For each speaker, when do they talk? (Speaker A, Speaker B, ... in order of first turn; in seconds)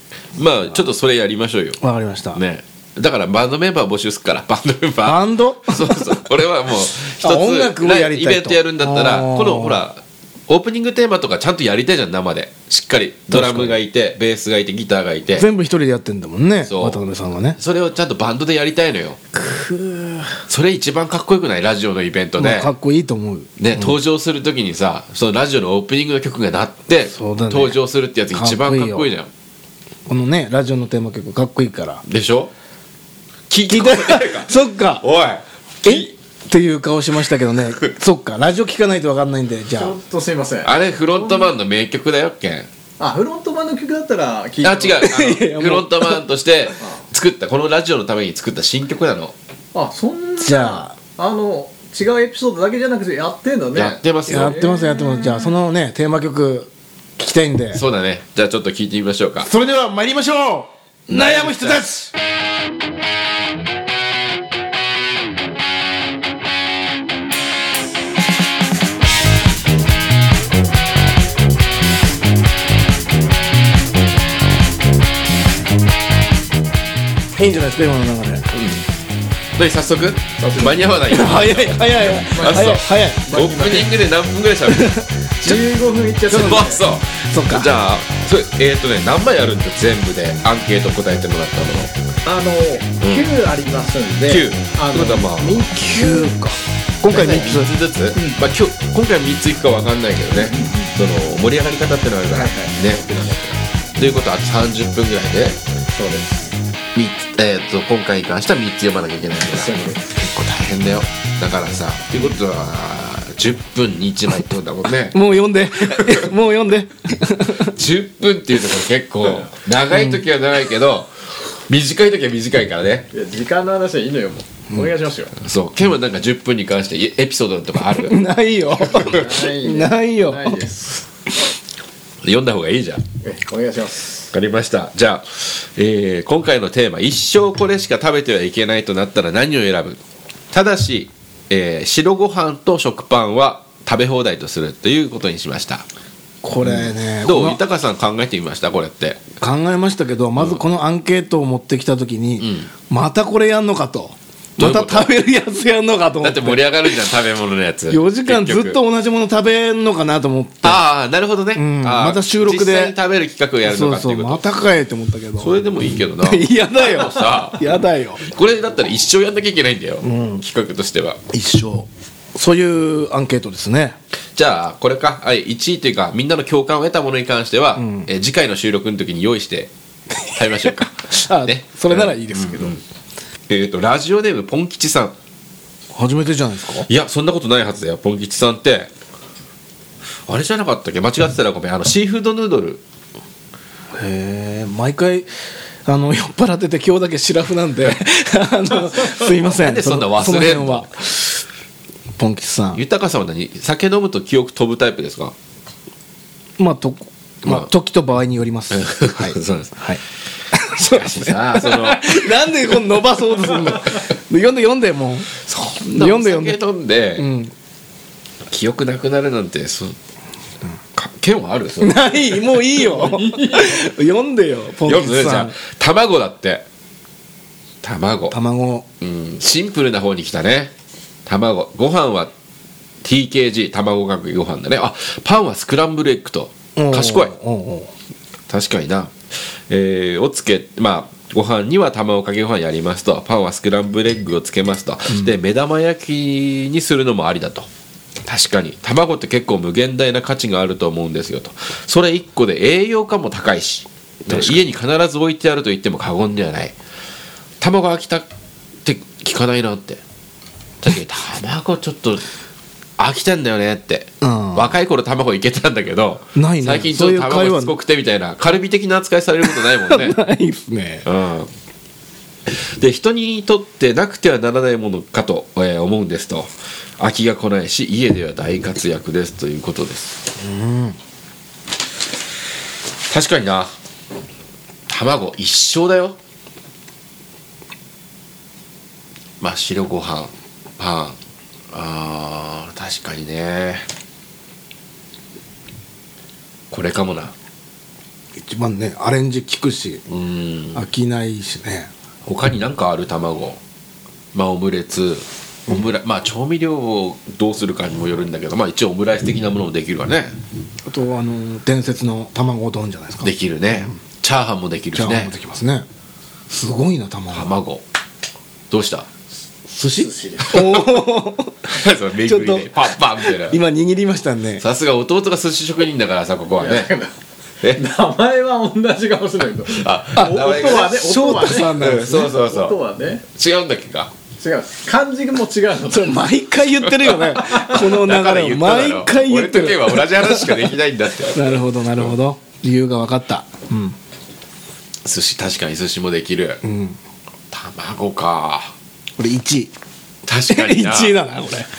Speaker A: 0.3-1.8, 2.3-15.5, 16.6-17.0, 17.6-19.2, 20.5-22.7, 23.6-29.3, 32.0-32.5, 33.5-36.1, 40.6-42.7, 44.6-49.3, 53.7-54.6, 57.7-59.5, 61.1-61.8, 78.5-78.9, 79.5-85.6, 86.3-91.9, 93.0-93.3, 94.3-95.7, 97.1-105.6, 106.9-115.2, 115.9-116.2, 117.6-121.1, 121.7-123.1, 125.3-128.2, 128.9-129.2, 132.2-133.0, 134.3-140.0, 140.5-145.8, 146.6-149.2, 150.4-150.6, 152.4-152.7, 154.6-155.1, 156.2-158.8, 160.6-164.4, 165.4-171.2, 174.3-179.7, 180.2-182.8, 183.5-185.1, 186.8-188.9, 190.3-192.8, 199.5-200.9, 202.7-205.3, 208.7-209.8, 210.8-212.4, 215.8-217.3, 218.5-219.9, 220.9-222.1, 224.8-226.6, 227.8-228.4, 229.0-230.7, 231.2-232.3, 233.0-237.3, 238.5-247.7, 248.2-256.7, 257.6-258.3, 258.8-260.0, 260.8-262.2, 263.0-270.2, 271.0-271.5, 272.5-280.2, 283.1-283.7, 284.9-286.2, 289.4-291.2, 291.7-293.9, 296.7-297.3, 300.1-300.9, 302.2-303.6, 304.3-310.4, 313.2-315.3, 317.3-317.8, 318.7-319.1, 321.6-323.6, 324.6-326.9, 329.7-332.8, 333.3-334.1, 336.8-342.1, 345.0-346.6, 347.5-348.7, 350.3-351.2
Speaker B: 1.8-2.4, 5.0-6.3, 7.1-9.8, 13.3-13.8, 15.3-17.6, 19.3-20.4, 22.4-23.9, 27.1-27.8, 28.3-29.1, 30.1-32.0, 33.7-35.0, 35.8-40.0, 45.0-46.2, 50.4-50.9, 54.3-57.8, 59.4-62.1, 77.3-78.5, 81.1-83.3, 84.7-85.1, 86.3-86.6, 87.3-87.8, 95.7-97.7, 115.1-117.8, 119.9-120.2, 127.9-130.7, 146.4-147.6, 149.4-157.0, 157.9-160.8, 161.5-162.9, 163.6-168.2, 170.0-170.4, 171.3-174.0, 177.8-178.1, 180.4-182.8, 185.9-186.9, 193.9-195.3, 195.8-201.4, 202.2-202.8, 206.6-216.6, 217.2-217.5, 221.8-225.6, 228.3-228.8, 236.8-237.9, 254.3-254.7, 264.2-264.7, 266.3-267.7, 269.4-271.1, 280.4-281.0, 298.3-300.0, 300.7-301.9, 310.8-314.0, 314.9-315.9, 316.5-317.5, 319.7-324.6, 330.1-332.3, 335.9-344.0, 346.6-347.0, 349.2-349.7, 350.5-351.7
Speaker C: 39.7-41.5, 43.0-45.1, 49.7-55.5, 80.4-81.2, 82.3-83.9, 85.4-86.8, 92.2-96.3, 100.3-100.9, 102.3-103.4, 105.9-106.4, 109.5-110.1, 123.1-125.3, 128.9-131.0, 133.2-134.3, 222.9-223.8, 319.9-320.7, 326.6-327.1, 327.7-333.2, 334.4-336.3, 337.2-337.8